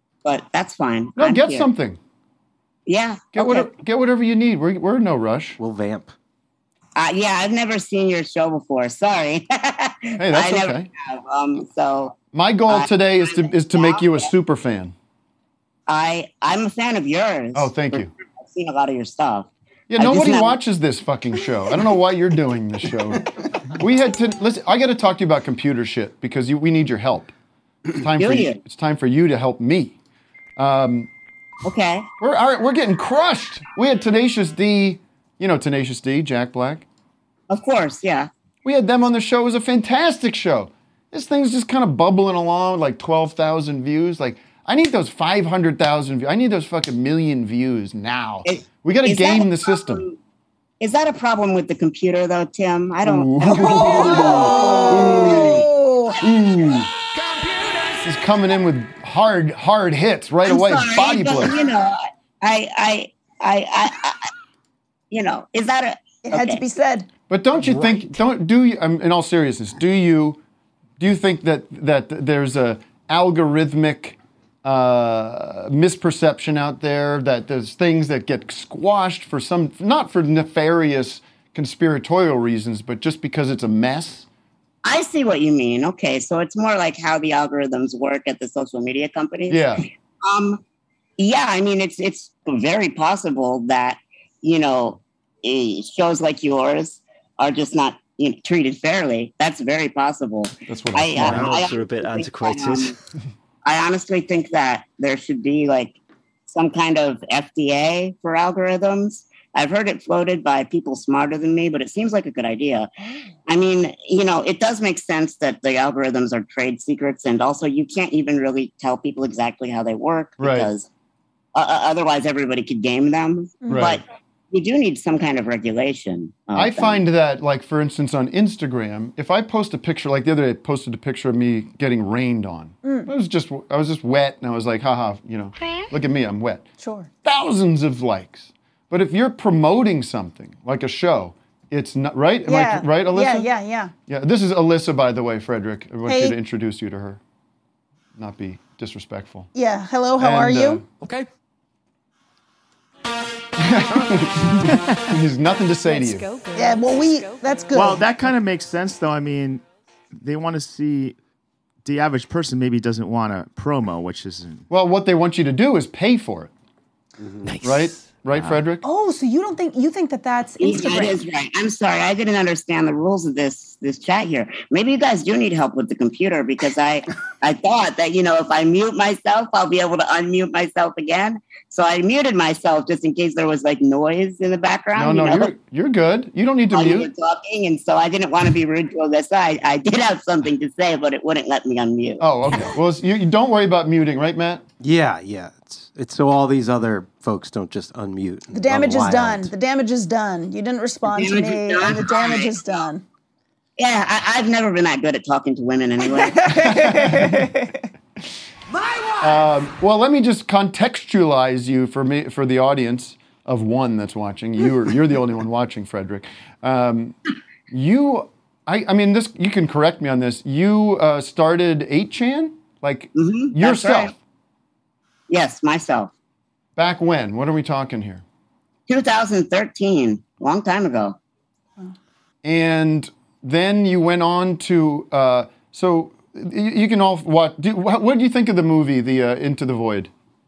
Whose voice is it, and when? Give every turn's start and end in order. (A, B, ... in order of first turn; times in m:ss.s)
0:00.2-0:01.7 A
0:01.2-0:02.0 B
0:02.9-0:03.7 A
0:03.4-0:05.6 B
0:05.6-0:06.1 C
0:07.0-0:14.3 A
0:10.2-0:10.9 B
0:12.3-0:15.0 B
0:15.9-0:20.6 A
0:17.6-0:18.1 B
0:19.9-0:27.3 B
0:28.0-0:30.0 B
0:28.2-0:28.6 A
0:30.6-0:31.1 B
0:31.6-0:32.1 A
0:32.2-0:36.9 B
0:37.5-0:38.3 A
0:38.6-0:50.1 B
0:48.4-0:50.2 A
0:50.8-0:55.5 A
0:53.0-0:55.7 B
0:53.5-0:56.2 D
0:56.2-0:56.9 B
0:58.0-1:01.6 B
1:00.4-1:04.3 A
1:05.1-1:06.6 A
1:06.2-1:07.1 D
1:07.3-1:10.4 B
1:11.0-1:24.3 B
1:24.8-1:30.6 A
1:29.5-1:29.8 B
1:31.2-1:43.0 A
1:40.7-1:41.6 B
1:41.3-1:42.9 C
1:43.6-1:46.0 A
1:46.5-1:52.9 A
1:53.5-2:00.9 A
2:00.4-2:00.7 B
2:01.6-2:07.0 A
2:03.7-2:04.0 B
2:06.5-2:16.6 B
2:12.8-2:13.1 D
2:16.8-2:17.1 D
2:17.2-2:23.5 B
2:22.5-2:23.9 D
2:24.1-2:27.2 B
2:26.1-2:26.4 D
2:28.2-2:29.5 B
2:29.6-2:30.8 D
2:30.2-2:30.9 B
2:33.6-2:36.3 B
2:36.5-2:38.0 D
2:37.7-2:39.6 E
2:40.2-2:41.2 E
2:41.8-2:44.7 E
2:44.7-2:46.5 B
2:47.6-2:48.8 B
2:48.8-2:51.2 D
2:50.6-3:05.5 A
3:05.0-3:07.1 B
3:06.7-3:12.3 A
3:12.2-3:14.6 B
3:14.8-3:19.5 C
3:18.5-3:23.0 D
3:21.1-3:22.8 A
3:23.8-3:26.6 A
3:26.2-3:27.8 D
3:26.5-3:27.4 B
3:29.2-3:37.2 B
3:37.7-3:44.2 B
3:43.2-3:44.1 A
3:45.3-3:46.1 A
3:46.8-3:48.2 B
3:48.9-3:51.2 A
3:52.4-4:00.1 B